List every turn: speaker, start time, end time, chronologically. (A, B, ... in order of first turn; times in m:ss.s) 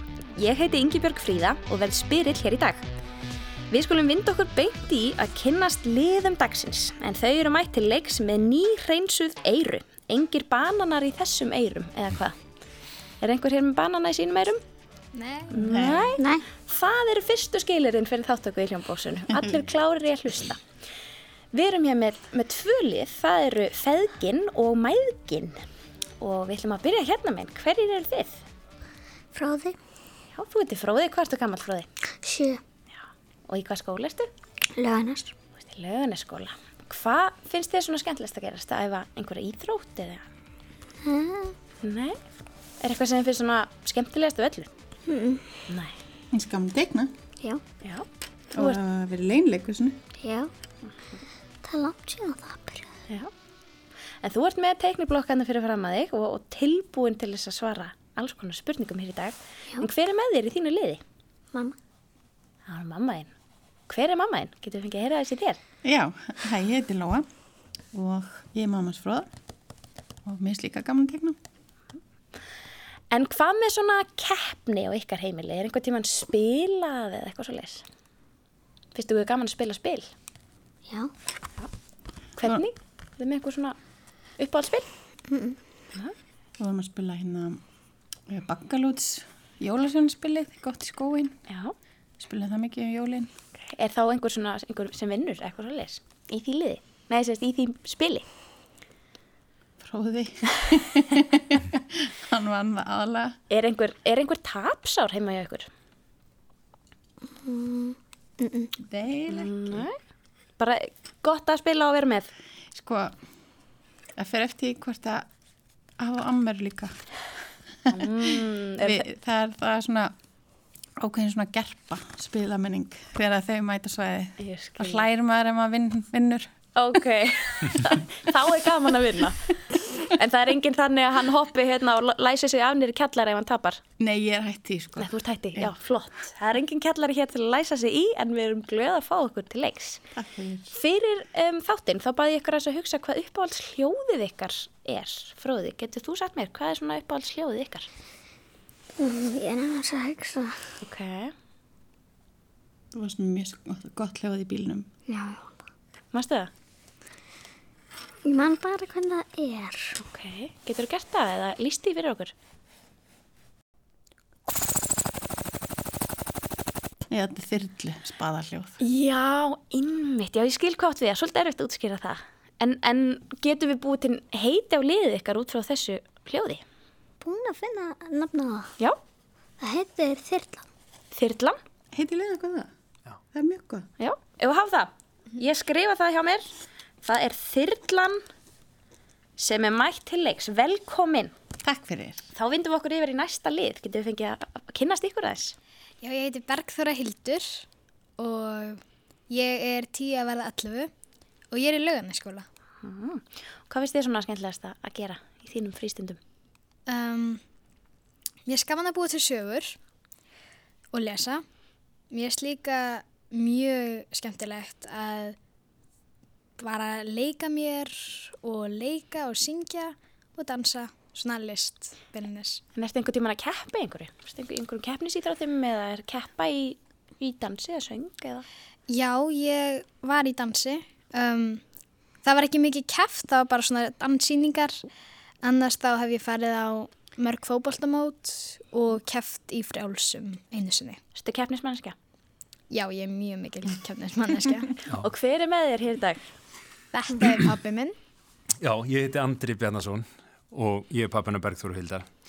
0:00.4-0:02.8 A
0:03.7-0:12.3 A
0:13.2-0:14.6 A
0:15.2-0:15.6 B
0:15.5-0:16.2 C
0:15.5-0:20.6 A
0:16.2-0:16.4 D
0:21.5-0:25.6 A
0:26.2-0:28.4 A
0:29.4-0:29.8 D
0:30.4-0:31.9 A
0:32.2-0:32.6 D
0:33.5-0:34.3 A
0:34.8-0:35.3 D
0:35.6-0:40.2 A
0:41.0-0:41.6 D
0:41.8-0:42.2 A
0:42.8-0:44.7 A
0:45.1-0:45.5 D
0:45.7-0:46.0 A
0:46.3-0:47.1 C
0:47.8-0:48.8 A
0:48.6-0:50.0 C
0:50.2-0:50.5 D
0:51.6-0:52.9 D
0:54.2-1:01.0 A
1:02.7-1:03.3 A
1:03.9-1:05.6 A
1:05.8-1:07.3 C
1:07.9-1:09.3 C
1:10.3-1:11.4 C
1:13.1-1:17.8 A
1:18.9-1:20.1 A
1:22.4-1:23.8 A
1:24.4-1:24.9 A
1:25.3-1:25.6 D
1:26.6-1:27.6 C
1:28.3-1:31.4 C
1:31.5-1:31.7 A
1:32.2-1:33.3 C
1:33.6-1:38.3 A
1:39.8-1:43.4 C
1:43.5-1:45.7 A
1:47.4-1:48.7 D
1:48.8-1:49.8 C
1:49.3-1:50.0 A
1:50.6-1:52.3 A
1:52.8-1:53.1 C
1:54.2-1:55.3 C
1:56.0-1:56.9 C
1:57.9-1:59.0 A
1:58.8-2:00.1 C
2:01.0-2:06.5 C
2:04.4-2:05.1 A
2:06.8-2:13.8 A
2:14.0-2:15.7 C
2:15.0-2:20.0 A
2:20.2-2:20.7 C
2:20.7-2:27.9 A
2:29.0-2:30.6 D
2:30.8-2:31.3 A
2:32.9-2:34.9 C
2:35.1-2:35.6 D
2:36.1-2:36.5 A
2:38.2-2:40.0 D
2:40.1-2:42.3 A
2:47.1-2:48.7 C
2:48.8-2:56.6 A
2:57.2-2:58.7 D
2:59.6-3:00.7 D
3:01.1-3:01.6 A
3:01.9-3:02.7 C
3:03.3-3:03.9 C
3:04.0-3:06.5 A
3:07.0-3:08.2 A
3:09.4-3:11.3 A
3:11.6-3:12.2 C
3:12.4-3:15.6 A
3:16.0-3:17.6 B
3:18.2-3:20.9 B
3:21.5-3:22.4 B
3:22.8-3:26.2 A
3:26.9-3:27.4 B
3:28.5-3:29.8 B
3:30.9-3:31.4 B
3:32.1-3:35.4 B
3:36.6-3:42.6 B
3:42.8-3:48.4 A
3:48.9-3:51.6 B
3:52.2-3:54.8 B
3:55.4-4:01.0 B
4:01.2-4:02.0 A
4:02.7-4:04.8 B
4:05.0-4:06.2 A
4:06.9-4:07.9 B
4:08.6-4:12.1 E